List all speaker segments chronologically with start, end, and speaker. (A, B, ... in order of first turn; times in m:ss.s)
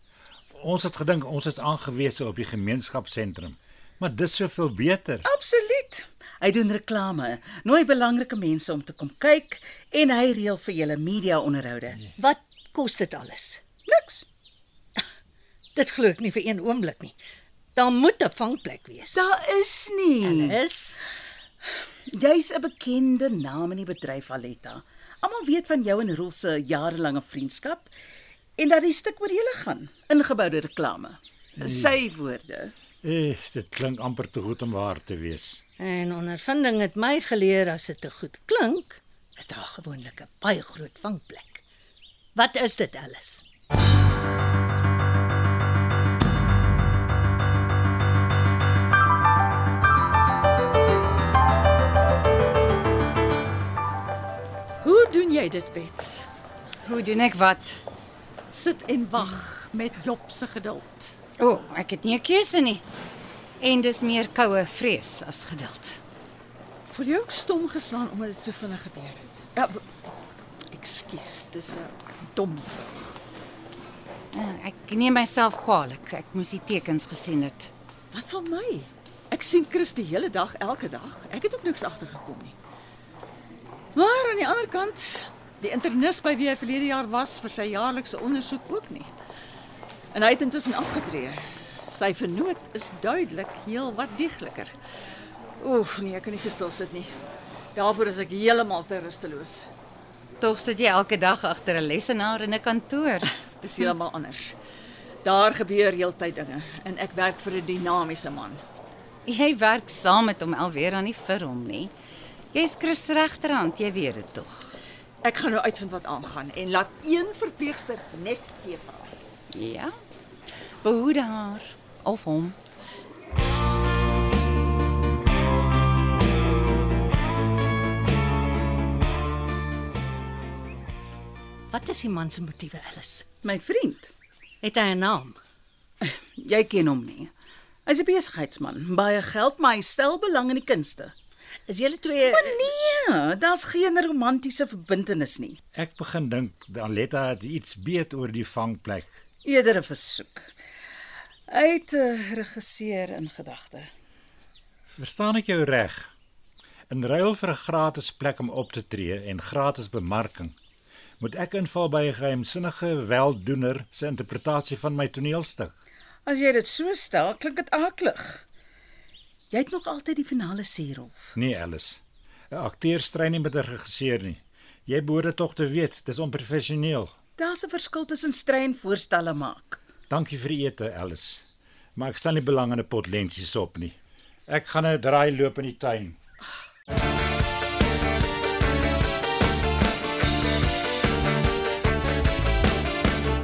0:00.5-0:05.2 A
0:05.2-0:12.0 B
0:12.2-0:13.6 C
0:13.9-0:14.2 B
0:15.8-0:17.1 C
0:17.7-0:19.3 C
0:19.1-0:20.6 B
0:20.2-0:21.0 C
0:22.1-0:27.9 B
0:28.6-0:32.7 B
0:31.6-0:31.9 A
0:33.0-0:35.6 A
0:35.8-0:41.6 C
0:42.3-0:43.4 C
0:54.8-0:56.2 D
0:56.8-0:57.8 E
0:58.5-1:01.2 D
1:01.4-1:02.8 E
1:03.6-1:06.0 E
1:06.9-1:09.8 D
1:10.7-1:13.2 D
1:14.3-1:17.7 E
1:18.1-1:22.5 D
1:24.0-1:29.1 D
1:30.1-1:34.7 D
1:35.6-1:37.1 D
1:37.7-1:39.6 D
1:40.4-1:43.3 E
1:43.5-1:44.6 D
1:45.2-1:48.6 D
1:49.3-1:51.9 E
1:52.5-1:54.7 E
1:55.2-1:59.1 D
1:59.5-1:59.9 E
2:00.8-2:02.6 E
2:11.7-2:13.3 C
2:13.4-2:14.1 B
2:14.6-2:15.4 C
2:16.0-2:17.3 B
2:17.8-2:21.1 B
2:21.7-2:22.6 C
2:22.3-2:25.6 B
2:25.7-2:29.1 A
2:29.4-2:30.5 B
2:31.5-2:33.9 B
2:34.9-2:36.1 A
2:36.9-2:40.5 A
2:41.2-2:45.8 A
2:46.2-2:48.4 B
2:49.5-2:51.3 B
2:51.3-2:57.1 A
2:57.4-2:59.8 B
3:00.1-3:01.4 A
3:02.0-3:04.0 A
3:04.5-3:06.2 A